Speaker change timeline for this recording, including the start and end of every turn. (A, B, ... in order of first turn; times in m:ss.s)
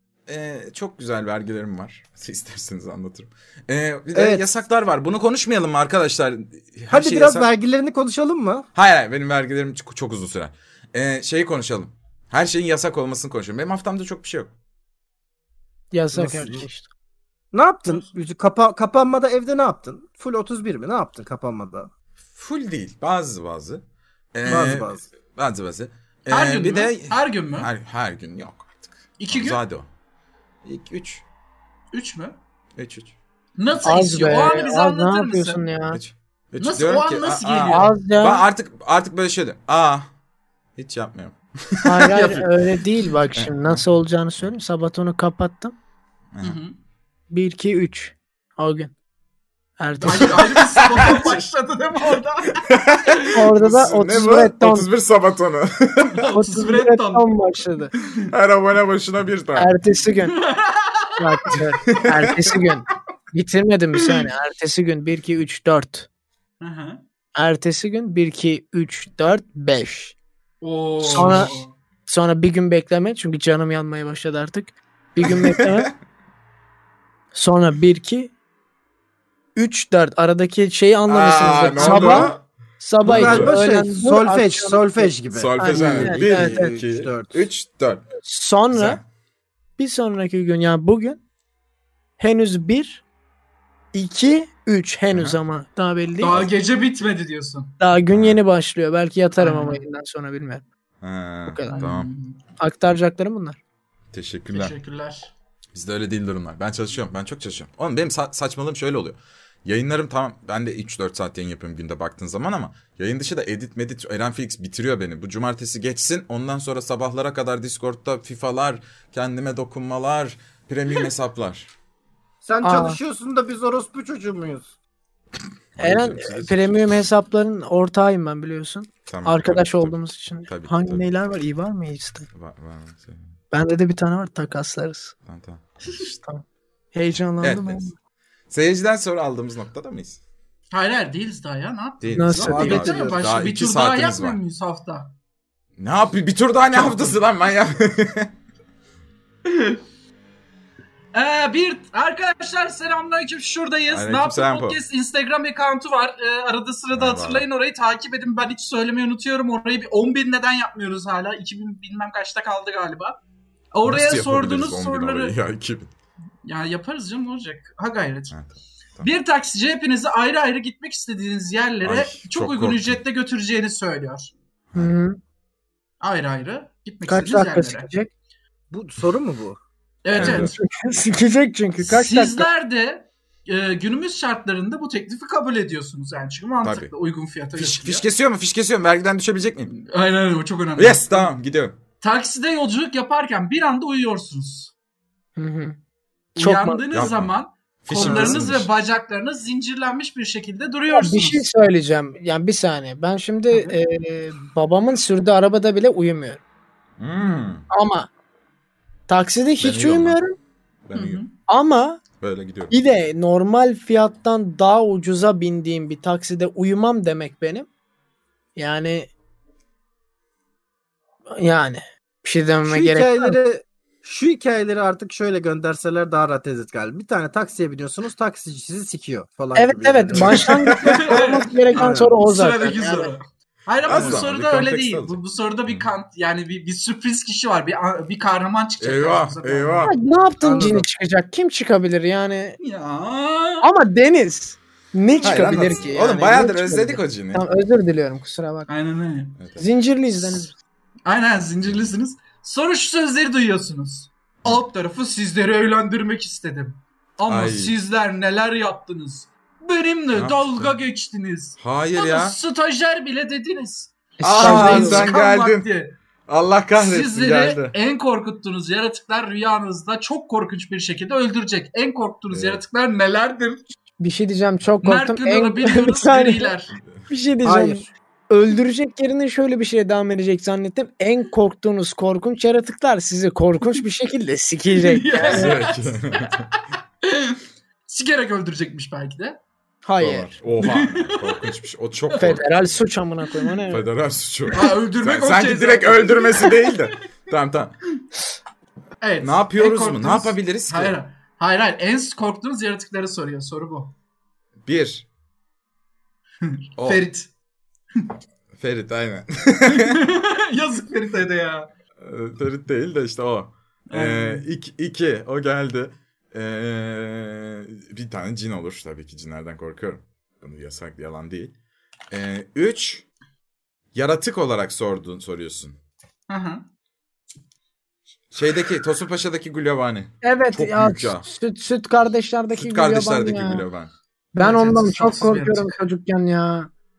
0:00.3-0:07.5 A
0:04.1-0:04.4 B
0:06.9-0:08.7 B
0:08.7-0:14.5 A
0:15.9-0:16.9 C
0:16.1-0:16.6 B
0:17.5-0:21.9 B
0:22.3-0:29.9 A
0:24.4-0:25.0 B
0:26.3-0:27.7 D
0:29.2-0:29.6 D
0:30.6-0:31.2 A
0:31.9-0:32.4 D
0:32.8-0:33.1 A
0:33.6-0:35.6 D
0:33.8-0:36.0 C
0:35.9-0:40.1 A
0:36.6-0:37.9 D
0:37.7-0:38.4 C
0:40.8-0:42.4 A
0:41.8-0:45.7 C
0:42.1-0:42.4 D
0:43.4-0:43.8 A
0:46.3-0:46.6 A
0:46.4-0:46.7 D
0:47.3-0:48.9 C
0:49.8-0:51.0 C
0:50.0-0:53.3 D
0:50.2-0:51.4 A
0:52.7-0:56.3 A
0:53.3-0:54.9 C
0:56.1-0:57.3 D
0:56.3-0:57.9 C
0:58.3-0:59.7 A
0:59.6-1:00.4 C
1:00.3-1:01.7 D
1:01.2-1:06.1 C
1:01.9-1:02.4 A
1:06.6-1:07.0 D
1:07.3-1:10.1 C
1:10.6-1:11.7 D
1:11.1-1:15.9 C
1:11.2-1:11.4 B
1:15.2-1:15.9 A
1:17.3-1:18.3 C
1:19.5-1:26.7 C
1:21.1-1:22.4 A
1:21.8-1:22.4 B
1:23.0-1:23.6 A
1:23.0-1:27.4 B
1:25.3-1:28.0 A
1:28.2-1:29.0 C
1:28.7-1:29.0 A
1:29.8-1:31.2 C
1:32.2-1:33.0 C
1:33.9-1:36.4 C
1:35.1-1:35.4 A
1:36.2-1:37.7 D
1:37.8-1:40.6 C
1:38.1-1:38.4 A
1:39.4-1:39.8 D
1:41.0-1:42.1 A
1:41.5-1:41.8 C
1:41.7-1:42.4 D
1:42.6-1:43.6 C
1:44.1-1:44.7 A
1:44.5-1:45.3 D
1:45.7-2:01.7 A
2:02.4-2:04.7 B
2:02.6-2:03.0 C
2:05.8-2:07.0 A
2:05.8-2:12.3 C
2:09.1-2:11.1 A
2:12.3-2:13.3 A
2:13.5-2:15.1 C
2:15.2-2:15.6 A
2:16.2-2:17.9 C
2:17.4-2:17.9 A
2:18.5-2:20.2 A
2:20.7-2:25.1 D
2:22.0-2:24.4 A
2:22.1-2:22.9 C
2:22.4-2:23.2 B
2:25.8-2:28.3 A
2:26.7-2:27.1 D
2:29.4-2:29.8 D
2:31.1-2:43.2 D
2:33.9-2:34.8 A
2:36.9-2:37.4 A
2:43.7-2:45.3 D
2:43.8-2:45.9 A
2:46.4-2:48.3 D
2:48.3-2:49.1 A
2:49.0-2:54.3 D
2:51.8-2:53.0 A
2:54.7-2:55.2 C
2:56.0-2:57.9 D
2:57.0-2:58.1 C
2:58.7-2:59.6 B
3:00.0-3:00.5 D
3:00.1-3:00.6 A
3:00.2-3:02.5 C
3:01.9-3:08.0 D
3:06.6-3:06.9 A
3:07.6-3:09.7 A
3:09.7-3:11.3 D
3:10.8-3:11.8 A
3:12.0-3:14.7 D
3:15.4-3:15.8 C
3:16.4-3:17.0 C
3:16.4-3:21.4 D
3:16.9-3:17.3 A
3:17.8-3:18.7 A
3:18.0-3:18.4 B
3:20.9-3:26.4 C
3:27.0-3:27.6 A
3:27.7-3:28.1 C
3:29.1-3:30.3 C
3:29.6-3:30.2 A
3:30.8-3:31.2 A
3:30.9-3:31.3 D
3:31.5-3:32.0 C
3:32.2-3:32.7 A
3:32.7-3:37.7 C
3:38.6-3:39.1 C
3:41.4-3:43.4 C
3:42.6-3:50.8 B
3:49.5-3:53.1 C
3:50.1-3:51.2 A
3:50.8-3:59.9 D
3:51.7-3:52.2 B
3:53.8-3:55.9 A
3:53.9-3:54.2 B
3:58.8-3:59.9 A
3:59.8-4:02.6 C
4:00.4-4:00.8 B
4:02.6-4:03.7 D
4:03.6-4:08.7 C
4:05.2-4:07.4 A
4:08.7-4:09.4 D
4:09.4-4:09.6 A
4:09.6-4:10.6 C
4:11.0-4:25.9 D
4:17.3-4:17.8 A
4:20.1-4:20.7 A
4:21.6-4:22.4 A
4:24.2-4:25.1 C
4:24.2-4:25.7 A
4:26.3-4:27.7 A
4:26.8-4:33.6 D
4:32.3-4:32.6 A
4:34.0-4:36.5 C
4:34.8-4:36.8 D
4:37.1-4:45.6 C
4:37.4-4:37.9 B
4:44.7-4:49.4 D
4:45.2-4:46.5 A
4:49.8-4:50.3 C
4:50.0-4:52.8 A
4:50.6-4:51.5 D
4:52.2-4:53.9 C
4:53.7-4:57.8 A
4:54.5-4:56.9 D
4:59.0-5:03.9 D
4:59.2-5:01.0 A
5:04.6-5:05.0 A
5:06.4-5:07.3 D
5:06.8-5:07.0 A
5:08.6-5:10.0 A
5:09.7-5:11.7 D
5:12.0-5:21.5 A
5:13.9-5:14.5 D
5:22.1-5:23.0 A
5:23.9-5:25.8 A
5:26.3-5:26.6 D
5:28.3-5:31.3 A
5:30.2-5:33.6 C
5:32.5-5:33.9 A
5:34.3-5:36.7 C
5:34.4-5:35.7 D